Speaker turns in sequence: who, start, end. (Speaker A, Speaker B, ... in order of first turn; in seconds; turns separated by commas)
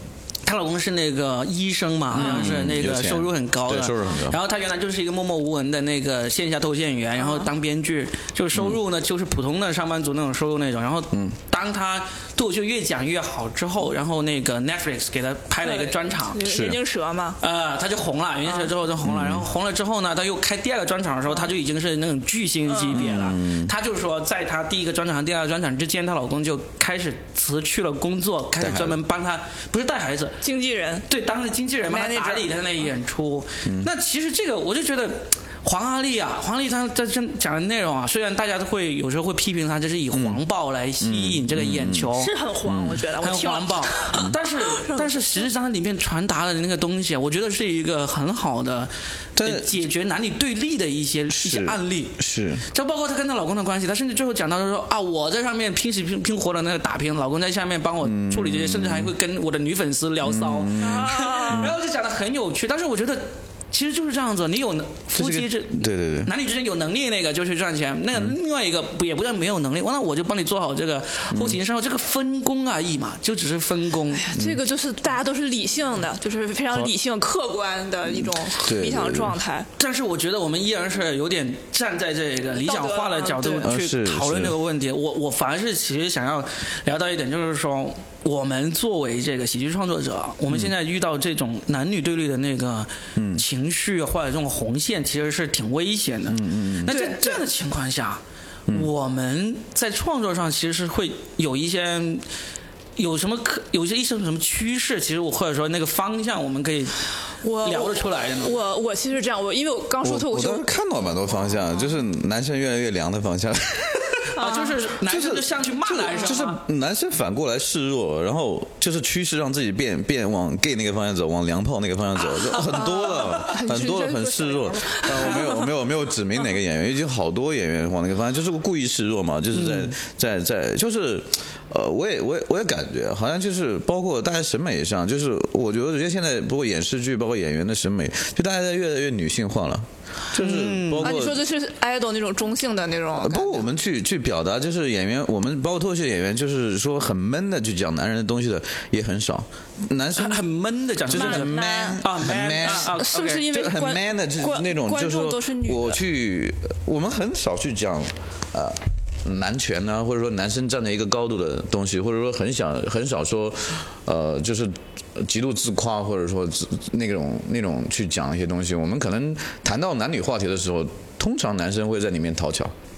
Speaker A: 0.5-16.4, Speaker B: 2.1-4.4, Speaker C: 2.2-2.5, Speaker C: 7.2-7.5, Speaker B: 8.6-8.8, Speaker C: 15.6-17.4, Speaker B: 16.4-16.8, Speaker A: 17.4-30.4, Speaker B: 19.0-19.4, Speaker C: 22.7-23.0, Speaker B: 22.9-23.7, Speaker B: 28.6-29.0, Speaker C: 30.4-31.1, Speaker A: 31.1-42.3, Speaker C: 31.9-32.5, Speaker B: 40.1-40.4, Speaker B: 41.0-42.1, Speaker C: 42.1-45.5, Speaker B: 42.6-43.0, Speaker A: 43.2-74.3, Speaker B: 49.4-49.8, Speaker B: 51.3-52.6, Speaker B: 58.0-59.1, Speaker B: 60.2-61.8, Speaker C: 60.8-61.7, Speaker B: 65.2-66.3, Speaker B: 71.3-71.6, Speaker C: 74.1-79.7, Speaker B: 74.3-74.6, Speaker B: 78.1-79.4, Speaker A: 79.8-102.2, Speaker C: 82.5-83.7, Speaker B: 83.6-84.6, Speaker B: 93.2-93.4, Speaker B: 96.3-96.9, Speaker C: 96.9-97.4, Speaker A: 103.0-107.0, Speaker C: 107.4-110.7, Speaker A: 107.6-108.5, Speaker B: 110.0-114.4, Speaker A: 114.3-116.6, Speaker C: 114.4-114.8, Speaker B: 115.0-141.4, Speaker C: 122.7-125.7, Speaker A: 129.5-129.9, Speaker A: 140.3-141.2, Speaker C: 141.0-143.7, Speaker B: 143.2-150.4, Speaker A: 150.2-153.5, Speaker B: 151.1-172.7, Speaker C: 151.1-156.0